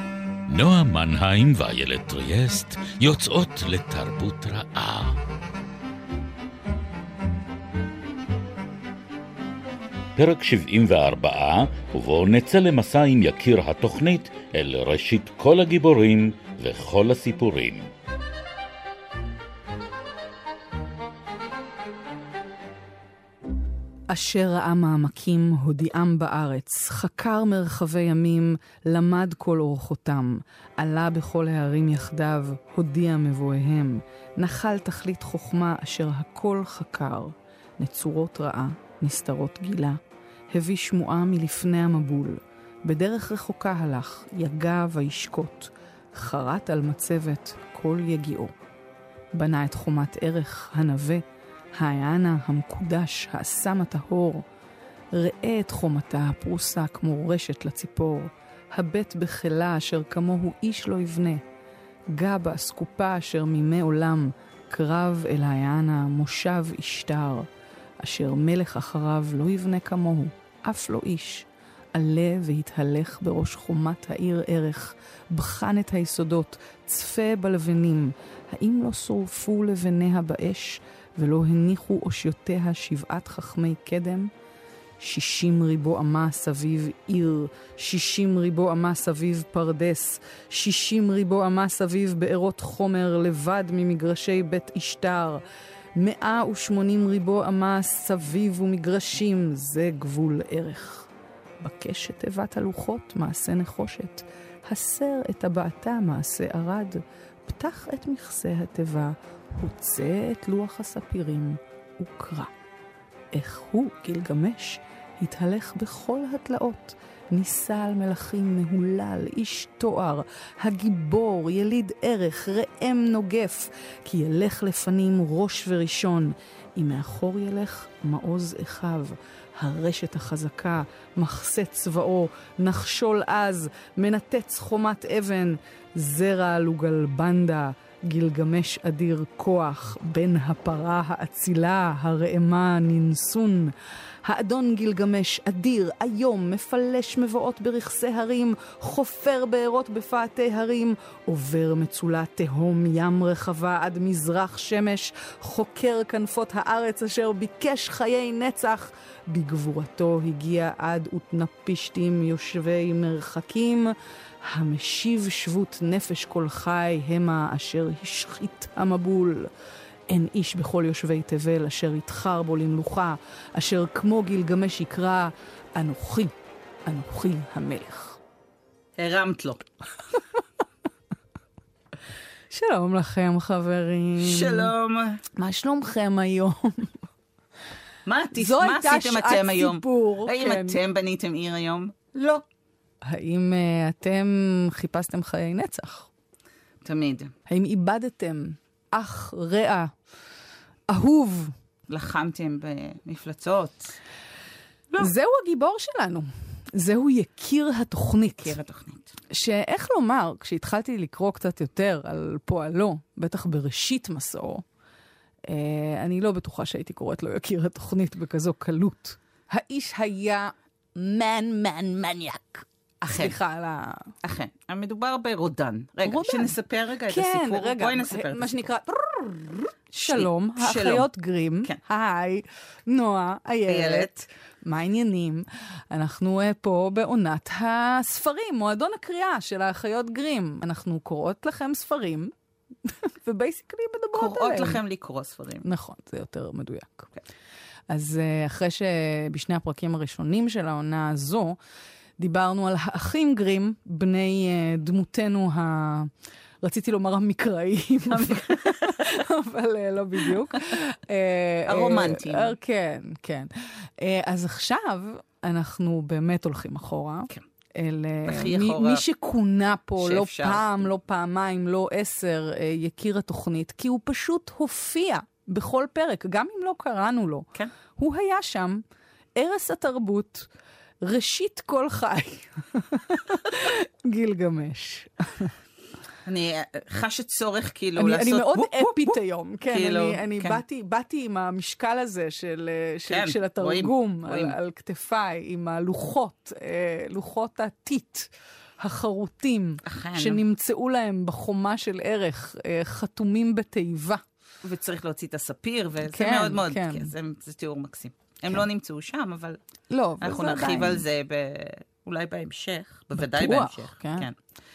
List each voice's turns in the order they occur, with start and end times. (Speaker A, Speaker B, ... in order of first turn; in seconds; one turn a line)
Speaker A: 0.5-5.2
Speaker A: 10.2-17.9
Speaker B: 24.1-40.0
Speaker B: 40.5-48.5
Speaker B: 49.3-54.4
Speaker B: 55.1-61.4
Speaker B: 62.1-67.5
Speaker B: 68.0-84.3
Speaker B: 85.0-95.4
Speaker B: 96.0-101.1
Speaker B: 101.6-112.5
Speaker B: 113.3-169.5
Speaker B: 170.1-176.3
Speaker B: 176.8-178.2
Speaker C: 179.0-179.7
Speaker B: 182.5-184.7
Speaker C: 184.2-185.2
Speaker B: 185.3-187.0
Speaker C: 188.1-192.4
Speaker B: 188.3-190.8
Speaker B: 193.0-196.1
Speaker C: 196.8-197.3
Speaker B: 197.5-199.9
Speaker B: 200.9-201.5
Speaker C: 201.9-204.0
Speaker B: 205.0-208.6
Speaker C: 208.4-209.1
Speaker B: 209.3-214.6
Speaker B: 215.5-224.1
Speaker C: 223.1-223.3
Speaker C: 224.2-228.5
Speaker B: 226.0-226.5
Speaker B: 227.1-242.3
Speaker C: 230.0-231.1
Speaker C: 233.7-234.2
Speaker B: 242.8-244.8
Speaker C: 244.1-245.6
Speaker B: 245.6-247.1
Speaker B: 247.9-251.6
Speaker B: 252.2-278.8
Speaker C: 258.1-259.1
Speaker C: 261.7-262.6
Speaker C: 268.2-269.0
Speaker C: 270.0-270.9
Speaker B: 279.4-280.5
Speaker B: 281.0-285.5
Speaker C: 286.2-289.2
Speaker B: 288.0-304.2
Speaker C: 289.7-290.6
Speaker C: 293.1-294.6
Speaker C: 299.9-300.4
Speaker C: 304.6-309.6
Speaker B: 306.1-307.1
Speaker B: 309.9-311.0
Speaker C: 310.2-314.4
Speaker B: 313.1-314.3